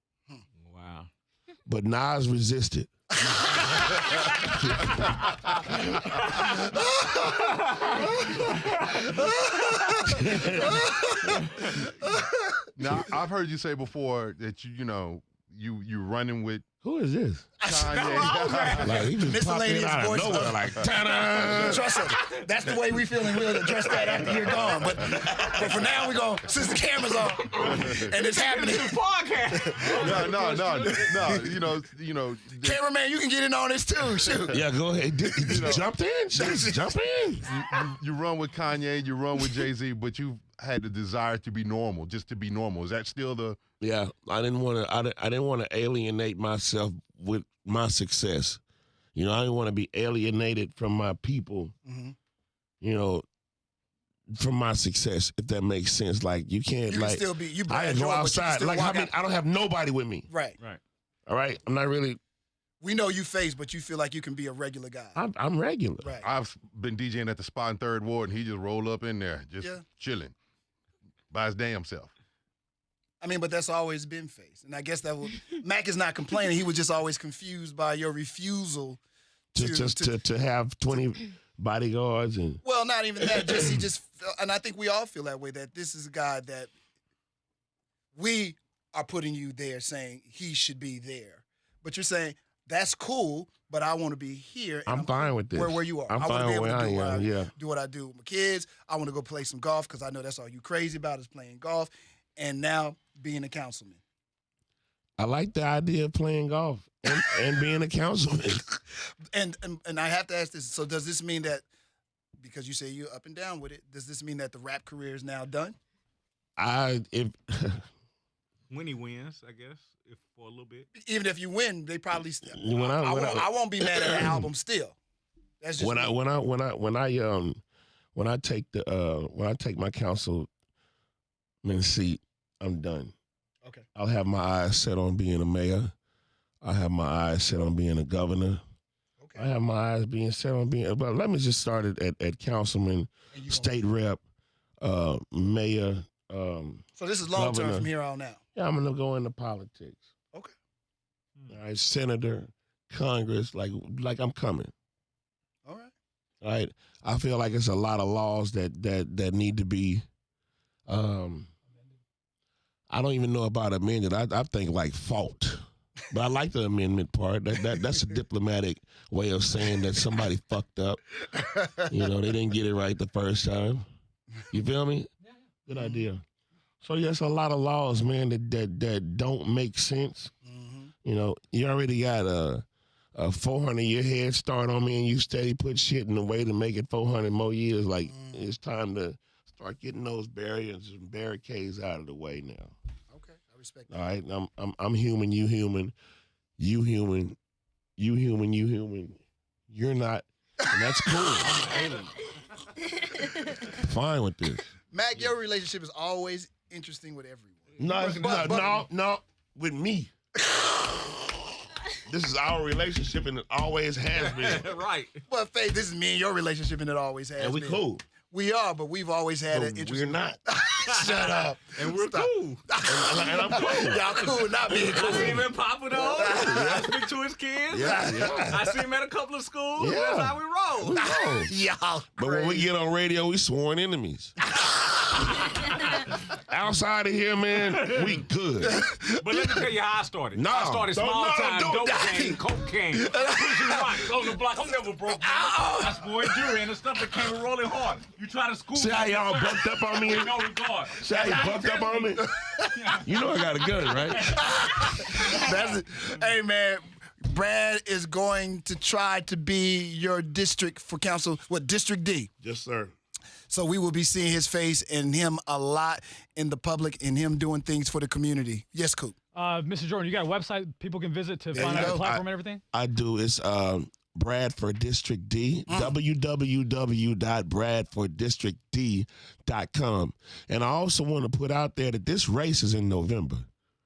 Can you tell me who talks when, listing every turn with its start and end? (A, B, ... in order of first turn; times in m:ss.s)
0:00.6-0:01.1 A
0:01.7-0:02.9 B
0:03.3-0:03.8 C
0:04.6-0:04.9 B
0:06.4-0:12.7 C
0:10.1-0:11.1 B
0:12.8-0:16.6 D
0:16.8-0:17.5 B
0:17.6-0:18.2 C
0:17.6-0:19.1 D
0:17.8-0:19.1 A
0:18.8-0:21.9 B
0:19.1-0:20.7 C
0:21.4-0:21.8 D
0:21.5-0:29.0 C
0:23.9-0:24.4 A
0:24.3-0:24.6 D
0:27.6-0:28.1 D
0:28.2-0:31.5 A
0:29.7-0:30.3 C
0:29.9-0:32.8 D
0:30.8-0:31.6 C
0:32.6-0:34.6 C
0:34.2-0:34.5 D
0:34.5-0:37.5 B
0:35.4-0:35.9 D
0:36.3-0:36.9 C
0:37.4-0:43.6 D
0:43.8-0:48.6 B
0:49.2-0:51.7 B
0:51.8-0:52.2 C
0:52.8-0:53.2 B
0:54.3-1:00.3 B
0:56.9-0:59.1 C
1:00.3-1:00.6 C
1:01.3-1:02.2 B
1:02.8-1:05.2 C
1:05.2-1:06.1 B
1:06.0-1:06.3 C
1:06.2-1:10.4 D
1:11.3-1:12.1 D
1:13.2-1:19.0 C
1:19.5-1:20.2 C
1:19.5-1:22.6 B
1:22.6-1:26.7 C
1:23.2-1:23.8 B
1:28.2-1:44.0 C
1:34.9-1:37.5 B
1:45.2-1:48.6 B
1:49.3-1:51.6 C
1:52.4-1:55.8 C
1:56.6-1:57.8 B
1:58.7-2:00.9 A
2:01.0-2:05.0 C
2:02.4-2:04.5 B
2:05.6-2:06.2 C
2:05.8-2:07.6 B
2:08.2-2:10.5 B
2:11.6-2:13.1 B
2:14.0-2:15.9 B
2:16.6-2:18.6 B
2:19.2-2:19.5 C
2:19.4-2:24.2 B
2:23.3-2:23.8 C
2:24.8-2:27.9 B
2:27.0-2:28.4 C
2:28.6-2:30.1 B
2:31.5-2:34.7 B
2:35.6-2:35.9 C
2:36.4-2:40.0 B
2:40.9-2:41.5 B
2:42.9-2:51.2 B
2:51.8-2:53.8 B
2:54.5-2:55.1 B
2:55.7-2:56.2 B
2:55.7-2:56.0 C
2:56.8-3:00.3 B
3:00.4-3:00.9 C
3:01.0-3:02.6 B
3:03.2-3:12.7 B
3:08.1-3:08.5 C
3:13.1-3:14.1 C
3:13.9-3:15.9 B
3:16.6-3:17.4 B
3:18.0-3:21.6 B
3:21.4-3:22.3 A
3:23.5-3:24.7 B
3:24.9-3:28.8 C
3:27.8-3:30.1 B
3:27.8-3:28.7 A
3:30.5-3:31.0 C
3:32.0-3:34.7 B
3:34.2-3:35.2 A
3:35.3-3:47.0 C
3:37.4-3:38.0 B
3:39.5-3:40.4 B
3:40.8-3:42.6 A
3:42.9-3:44.0 B
3:43.5-3:51.0 A
3:47.7-3:48.7 B
3:47.9-3:48.4 C
3:49.8-3:50.4 B
3:50.9-3:51.5 B
3:50.9-3:52.7 C
3:52.2-3:54.4 B
3:56.2-3:58.8 B
3:57.8-3:58.2 A
3:58.6-3:59.6 C
3:59.1-4:11.9 A
4:00.3-4:02.4 B
4:03.0-4:04.1 C
4:05.3-4:05.9 C
4:08.8-4:12.3 B
4:11.1-4:12.7 C
4:12.8-4:13.6 A
4:13.0-4:14.5 B
4:14.2-4:14.9 A
4:14.3-4:22.3 C
4:22.4-4:22.9 B
4:23.5-4:29.2 C
4:29.4-4:32.6 E
4:31.5-4:32.2 C
4:31.5-4:32.2 B
4:32.7-4:43.5 B
4:35.7-4:36.0 C